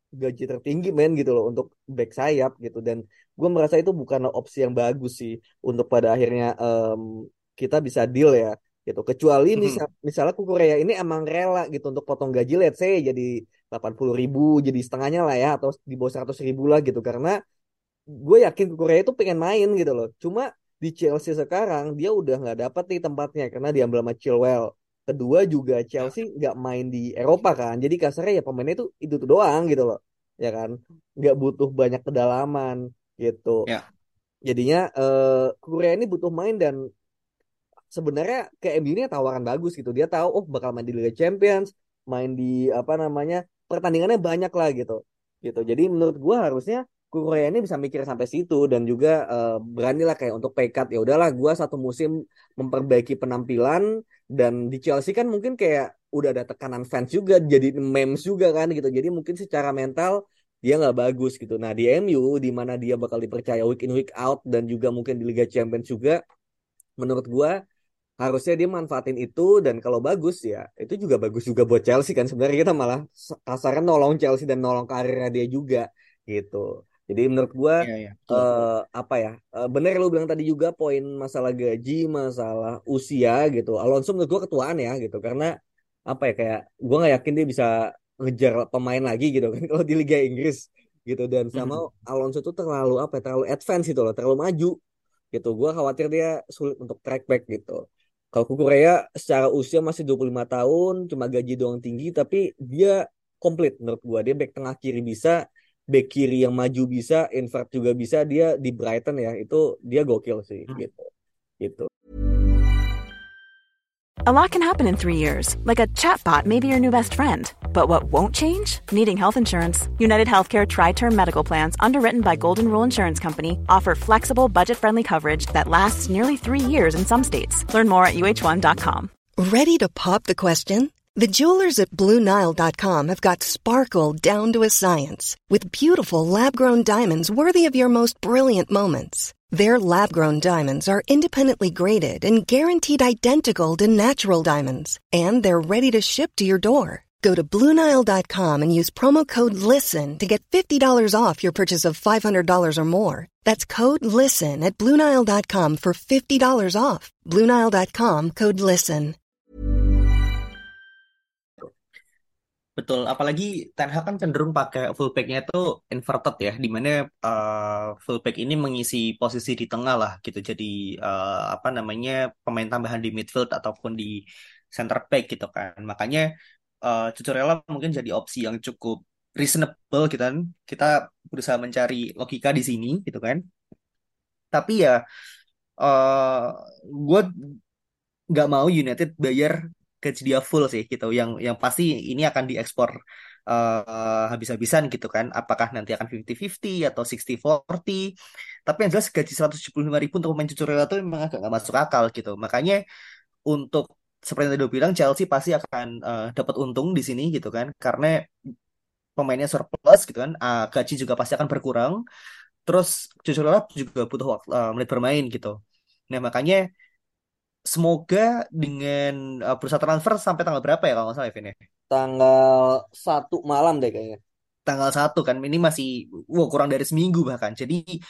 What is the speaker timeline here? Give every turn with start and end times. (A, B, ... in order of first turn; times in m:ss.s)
0:00.2-0:17.4 A
0:09.6-0:09.8 B
0:18.2-0:33.7 A
0:34.4-0:36.8 A
0:37.9-0:53.8 A
0:54.4-1:06.2 A
1:07.0-1:07.5 A
1:08.2-1:25.5 A
1:17.8-1:18.5 B
1:26.1-1:34.8 A
1:31.6-1:31.8 B
1:35.3-1:37.8 A
1:38.3-1:51.1 A
1:51.6-1:51.9 A
1:54.2-2:09.1 C
2:09.4-2:39.2 D
2:42.8-2:54.2 B
2:54.7-2:56.2 B
2:56.8-3:03.4 B
3:04.5-3:05.0 B
3:05.8-3:07.3 B
3:08.3-3:12.9 B
3:13.5-3:18.1 B
3:18.7-3:22.8 B
3:23.5-3:28.1 B
3:29.2-3:32.0 B
3:32.7-3:35.5 B
3:36.1-3:36.6 B
3:37.7-3:41.5 B
3:41.9-3:44.2 A
3:44.7-3:47.8 B